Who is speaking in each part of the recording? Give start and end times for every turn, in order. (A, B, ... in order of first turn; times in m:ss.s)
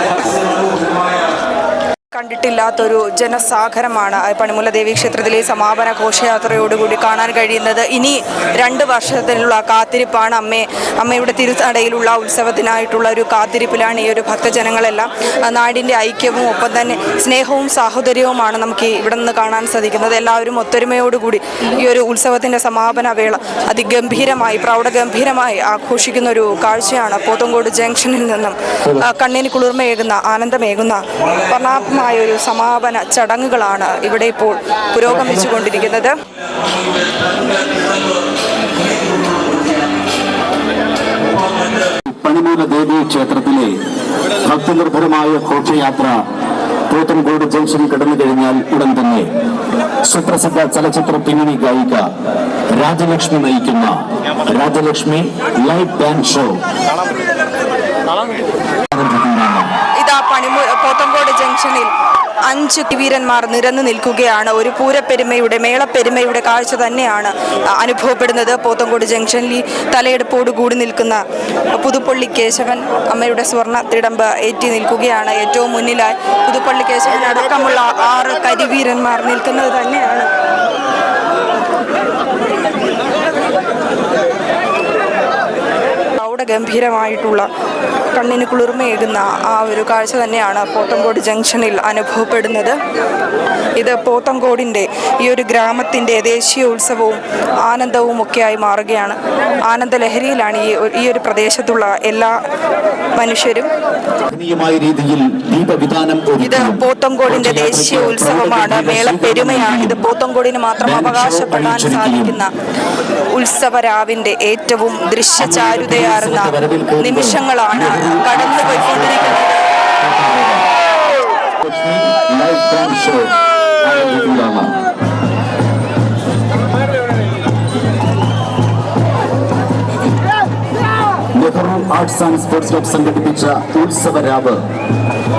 0:02.1-0:36.2 A
0:35.1-0:35.5 B
0:42.1-0:43.7 B
0:44.4-0:46.2 B
0:46.9-0:49.3 B
0:50.0-0:52.1 B
0:52.7-0:56.6 B
0:58.9-0:59.7 B
1:00.0-1:01.9 A
1:02.5-1:11.2 A
1:11.7-1:20.3 A
1:26.2-1:27.5 A
1:28.1-1:32.8 A
1:33.8-1:39.2 A
1:39.7-1:42.4 A
1:43.2-1:43.7 A
1:44.3-1:50.0 B
1:46.4-1:52.5 A
1:50.8-1:52.4 B
1:53.3-1:59.6 A
1:55.4-1:59.4 B
2:00.0-2:00.7 B
2:01.6-2:04.8 B
2:11.4-2:14.6 B